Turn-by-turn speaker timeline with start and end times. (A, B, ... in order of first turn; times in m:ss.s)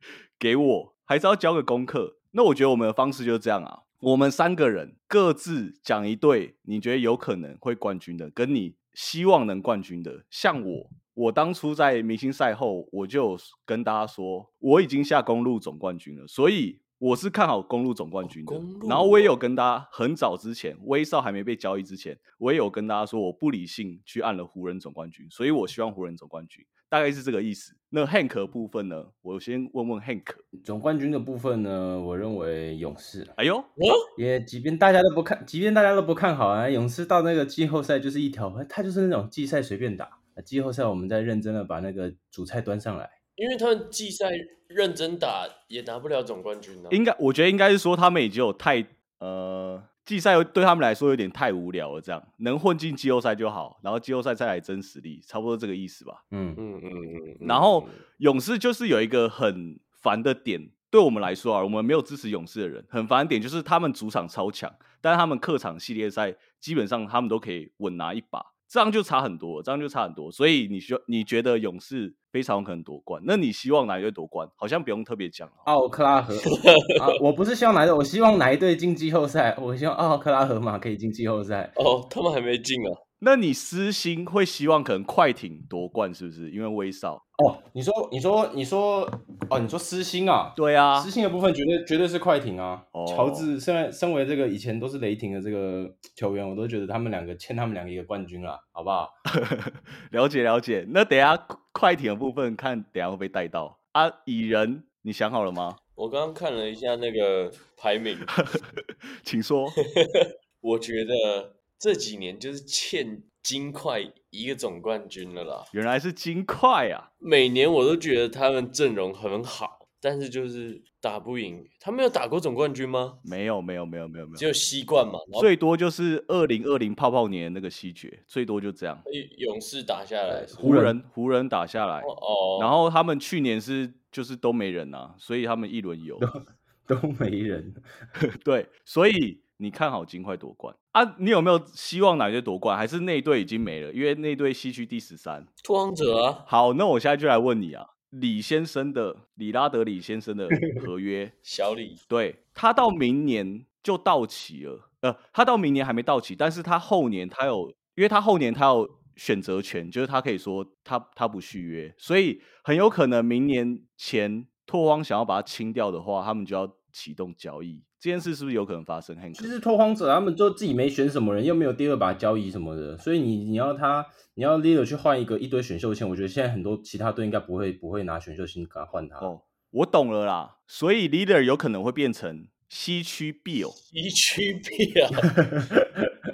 0:00.4-0:30.4 A
0:18.2-0:19.4 B
0:30.6-0:33.4 C
0:33.4-0:33.7 A
0:33.8-0:34.1 B
0:34.2-0:43.2 C
0:43.4-0:47.0 B
0:46.9-0:56.2 A
0:56.3-0:56.6 C
0:56.6-0:58.0 B
0:57.4-1:15.7 A
1:15.7-1:21.8 C
1:16.5-1:17.1 B
1:21.8-1:23.0 B
1:23.2-1:27.2 A
1:27.4-1:39.1 C
1:30.6-1:31.1 A
1:32.9-1:33.5 A
1:39.4-1:45.8 A
1:46.0-1:48.3 B
1:48.4-1:49.8 A
1:50.0-1:55.7 B
1:55.7-1:57.1 A
1:57.2-2:03.2 B
2:03.2-2:04.5 A
2:04.4-2:05.5 B
2:05.4-2:09.0 A
2:09.1-2:10.7 B
2:10.3-2:11.0 C
2:10.6-2:16.3 A
2:12.0-2:12.7 B
2:16.9-2:17.8 C
2:18.4-2:25.5 A
2:25.6-2:26.5 B
2:26.5-2:31.3 A
2:31.4-2:32.0 B
2:32.1-2:49.6 A
2:49.4-2:59.3 C
2:59.2-3:03.8 A
3:03.8-3:05.3 B
3:05.4-3:06.1 C